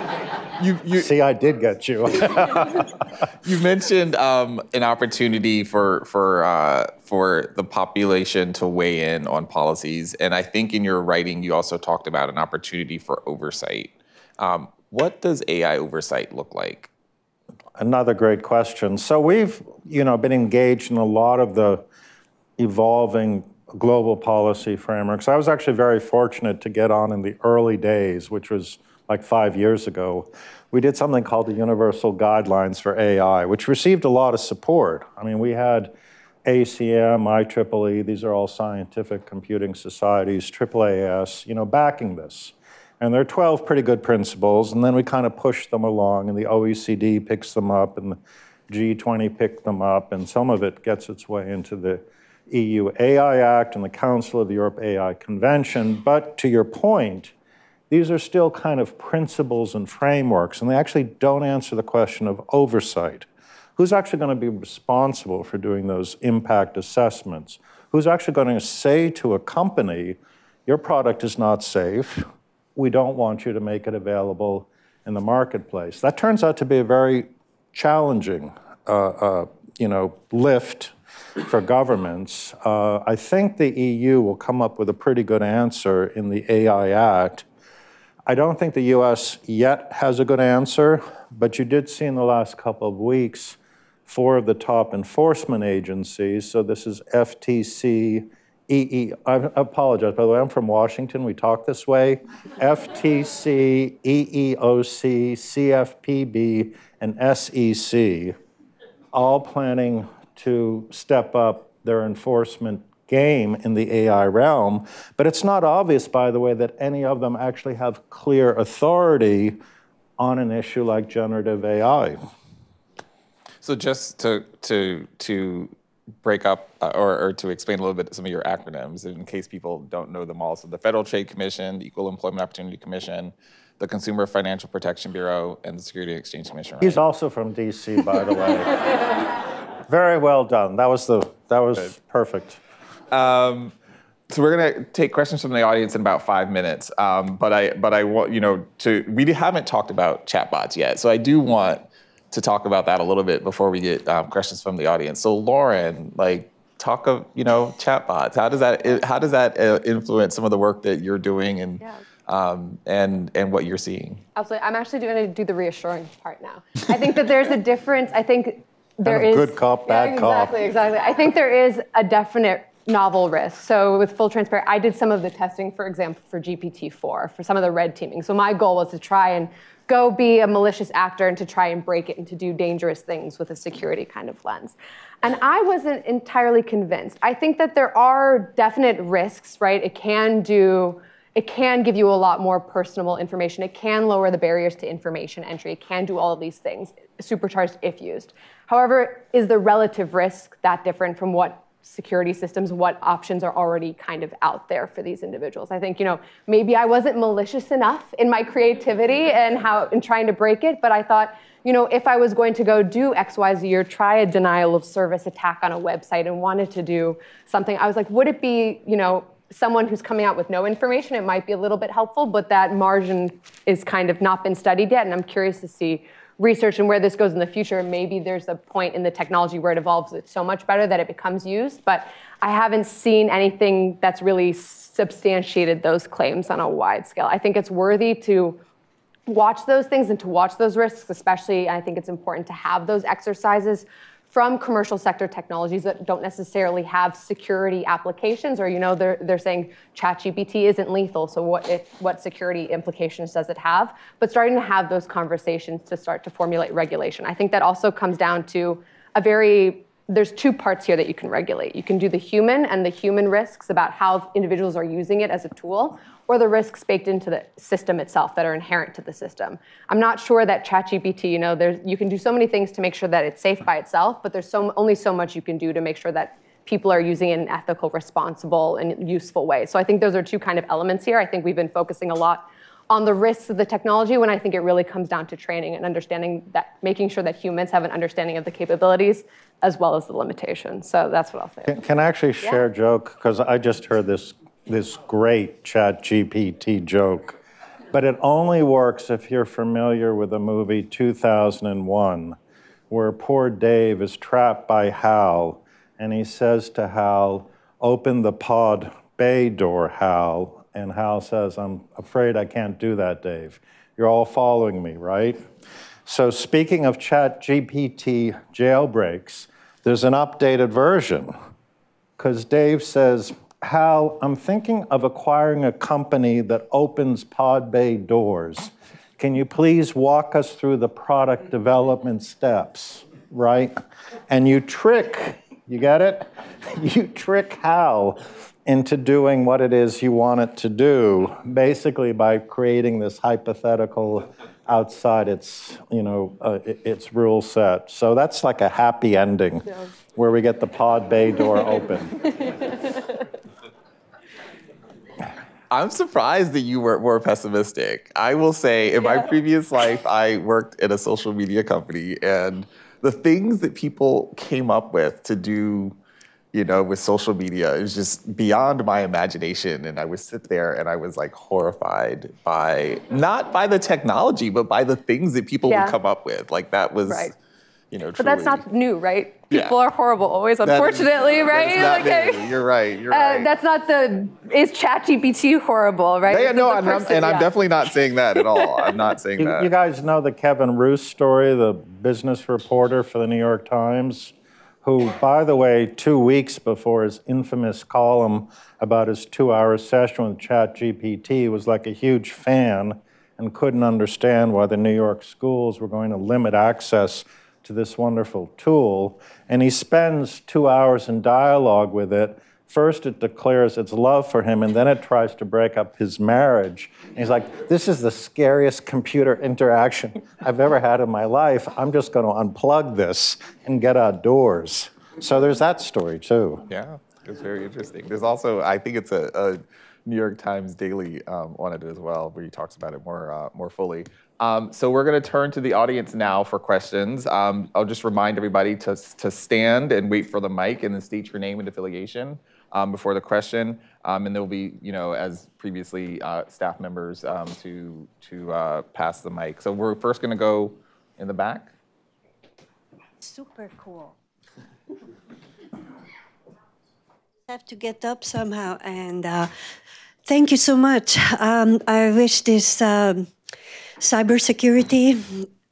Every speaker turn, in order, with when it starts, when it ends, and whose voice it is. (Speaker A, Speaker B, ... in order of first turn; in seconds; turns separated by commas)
Speaker A: 0.6-1.1, Speaker B: 0.9-2.9, Speaker A: 3.4-16.9, Speaker B: 17.8-21.8, Speaker B: 22.6-35.9, Speaker B: 36.4-57.3, Speaker B: 57.9-87.5, Speaker B: 88.3-108.3, Speaker B: 109.1-119.6, Speaker B: 120.2-122.2, Speaker A: 123.6-125.7, Speaker A: 126.2-137.0, Speaker B: 136.8-139.1, Speaker B: 139.9-142.6, Speaker A: 143.1-143.7, Speaker A: 144.3-164.2, Speaker C: 164.3-238.6, Speaker B: 169.0-170.5, Speaker C: 239.3-291.7, Speaker B: 291.7-297.4, Speaker B: 297.9-302.4, Speaker B: 302.9-315.4, Speaker B: 316.1-321.3, Speaker B: 322.2-333.7, Speaker B: 334.3-352.3, Speaker A: 355.7-365.9, Speaker A: 366.5-377.3, Speaker C: 375.7-375.9, Speaker C: 377.1-377.3, Speaker A: 377.9-378.6, Speaker C: 378.2-382.5, Speaker A: 379.5-379.7, Speaker A: 380.6-383.5, Speaker C: 383.1-387.5, Speaker A: 386.3-389.7, Speaker C: 388.6-388.9, Speaker B: 389.4-426.6, Speaker A: 426.7-451.7, Speaker D: 453.2-454.1, Speaker D: 457.5-459.5, Speaker D: 460.2-463.3, Speaker D: 464.0-465.5